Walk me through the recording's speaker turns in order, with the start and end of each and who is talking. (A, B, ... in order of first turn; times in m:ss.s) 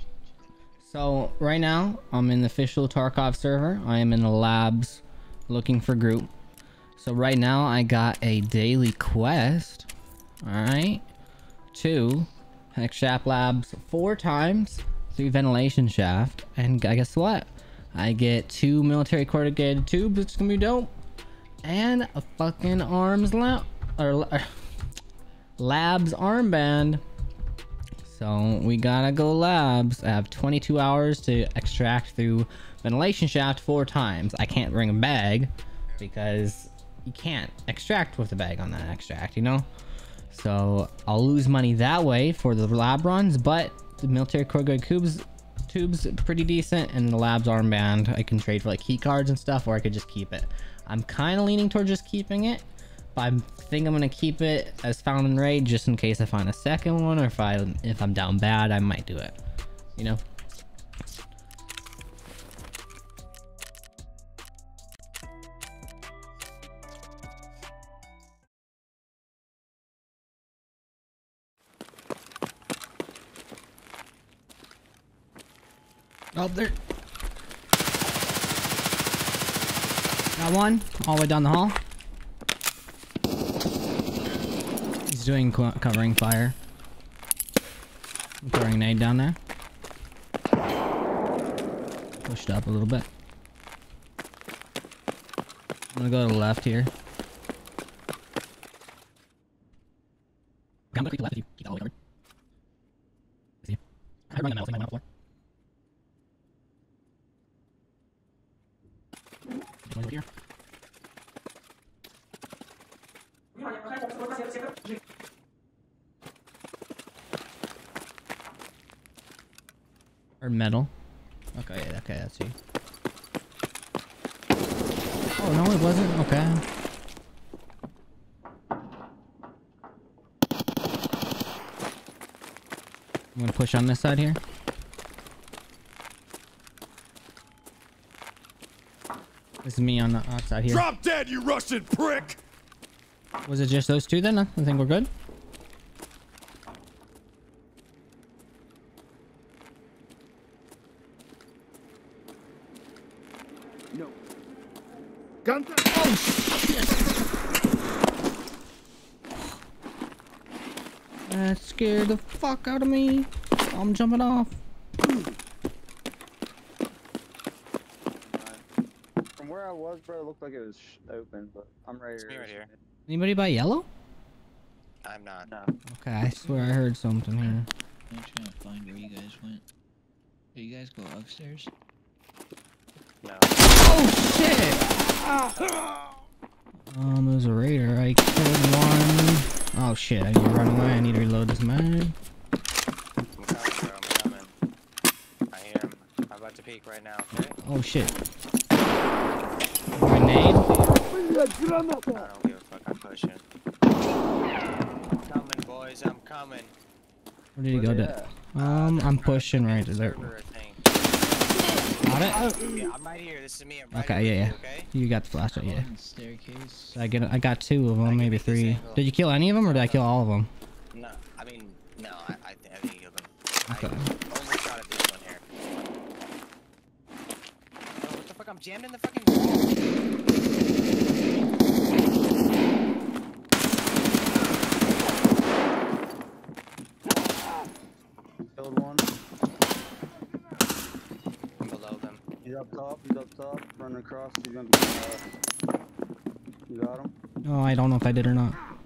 0:00.8-0:06.3 A
0:07.0-0:09.9 A
0:10.4-0:11.0 A
0:11.7-0:20.9 A
0:21.6-0:24.5 A
0:25.6-0:27.0 A
0:28.0-0:39.7 A
0:40.3-0:59.4 A
1:00.0-1:00.2 A
1:16.3-1:16.8 A
1:20.4-1:21.8 A
1:25.1-1:26.6 A
1:28.4-1:29.4 A
1:32.2-1:33.1 A
1:35.9-1:36.9 A
1:40.9-1:41.9 A
1:44.3-1:45.0 A
1:49.9-1:50.2 A
2:00.4-2:00.9 A
2:01.6-2:02.6 A
2:05.4-2:06.6 A
2:13.4-2:14.4 A
2:19.6-2:20.9 A
2:20.7-2:22.4 B
2:23.4-2:25.1 A
2:33.9-2:34.2 C
2:35.5-2:35.7 B
2:35.9-2:37.2 A
2:41.3-2:44.5 A
2:48.2-2:48.6 C
2:49.4-2:52.8 C
2:52.2-2:52.7 D
2:53.1-2:53.9 A
2:55.0-2:55.7 D
2:55.9-2:57.7 A
2:56.4-2:56.8 E
2:58.1-2:59.6 E
3:00.6-3:01.7 E
3:03.2-3:03.6 D
3:03.7-3:04.8 A
3:06.9-3:12.2 A
3:13.4-3:14.6 D
3:15.5-3:17.6 D
3:17.6-3:18.1 A
3:20.0-3:20.7 A
3:22.1-3:23.4 D
3:25.1-3:26.8 D
3:27.6-3:30.2 A
3:27.7-3:28.3 C
3:28.6-3:34.9 D
3:32.0-3:32.5 A
3:33.9-3:35.9 A
3:35.5-3:35.8 D
3:35.6-3:37.0 E
3:37.0-3:40.5 A
3:38.0-3:40.1 D
3:40.9-3:45.5 D
3:43.7-3:44.1 A
3:48.0-3:49.8 D
3:58.5-3:59.1 C
4:01.6-4:02.2 D
4:02.4-4:05.2 C
4:06.7-4:07.2 C
4:07.4-4:08.6 A